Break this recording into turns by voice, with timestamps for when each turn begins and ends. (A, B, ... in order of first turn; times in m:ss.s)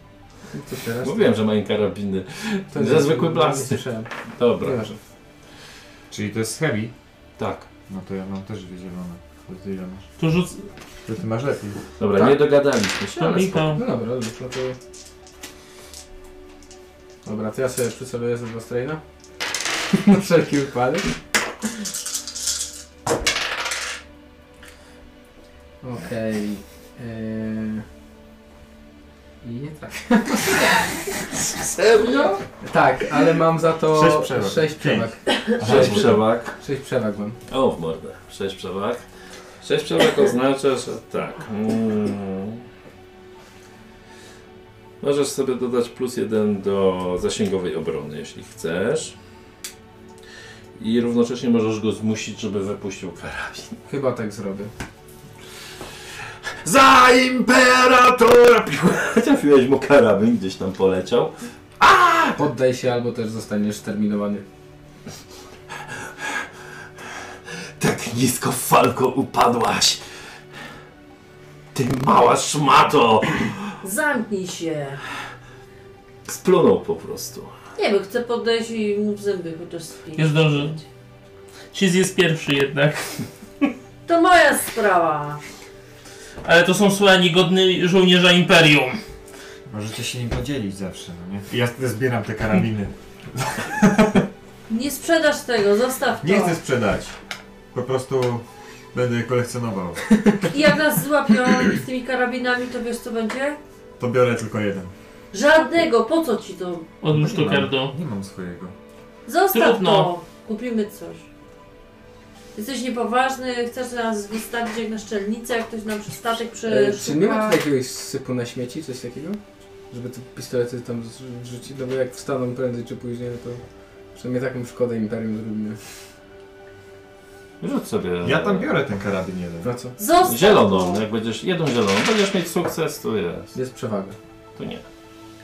0:00.5-0:01.3 A
0:01.0-0:04.8 B
0:02.7-0:05.0 A
0:06.1-0:06.9 C
0:07.4-0:07.7 B
0:07.9-0:10.1 C
0:10.2-0:10.6 D
0:11.0-0:11.8 C
0:12.0-0:13.7 B
0:13.2-0:13.8 D
0:13.7-0:14.8 A
0:17.2-0:19.0 A
0:19.9-0:21.1 A
0:25.8-0:27.8 A
0:29.4-0:31.2 A
0:31.6-0:32.4 B
0:32.6-0:37.4 A
0:33.8-0:36.2 C
0:35.6-0:36.6 B
0:37.5-0:39.0 B
0:39.6-0:42.6 B
0:45.0-0:49.2 B
0:50.8-0:53.8 B
0:53.9-0:54.7 A
0:56.6-1:02.4 B
1:02.4-1:04.4 A
1:07.8-1:10.0 B
1:11.7-1:13.7 B
1:13.8-1:15.0 E
1:16.2-1:17.5 B
1:17.8-1:20.8 E
1:20.2-1:20.8 D
1:21.7-1:23.7 D
1:24.0-1:25.4 E
1:26.4-1:29.0 D
1:29.7-1:34.3 C
1:34.7-1:36.6 E
1:36.2-1:37.1 C
1:37.7-1:40.0 C
1:40.4-1:43.6 E
1:44.0-1:44.9 C
1:45.3-1:46.9 E
1:47.0-1:47.9 D
1:47.1-1:48.7 C
1:49.2-1:51.2 E
1:49.5-1:50.1 D
1:52.5-1:57.6 E
1:56.7-2:05.8 A
2:07.6-2:08.7 B
2:08.2-2:09.7 C
2:09.6-2:09.9 A
2:10.0-2:11.0 E
2:10.2-2:13.5 B
2:13.5-2:14.2 A
2:14.6-2:14.8 B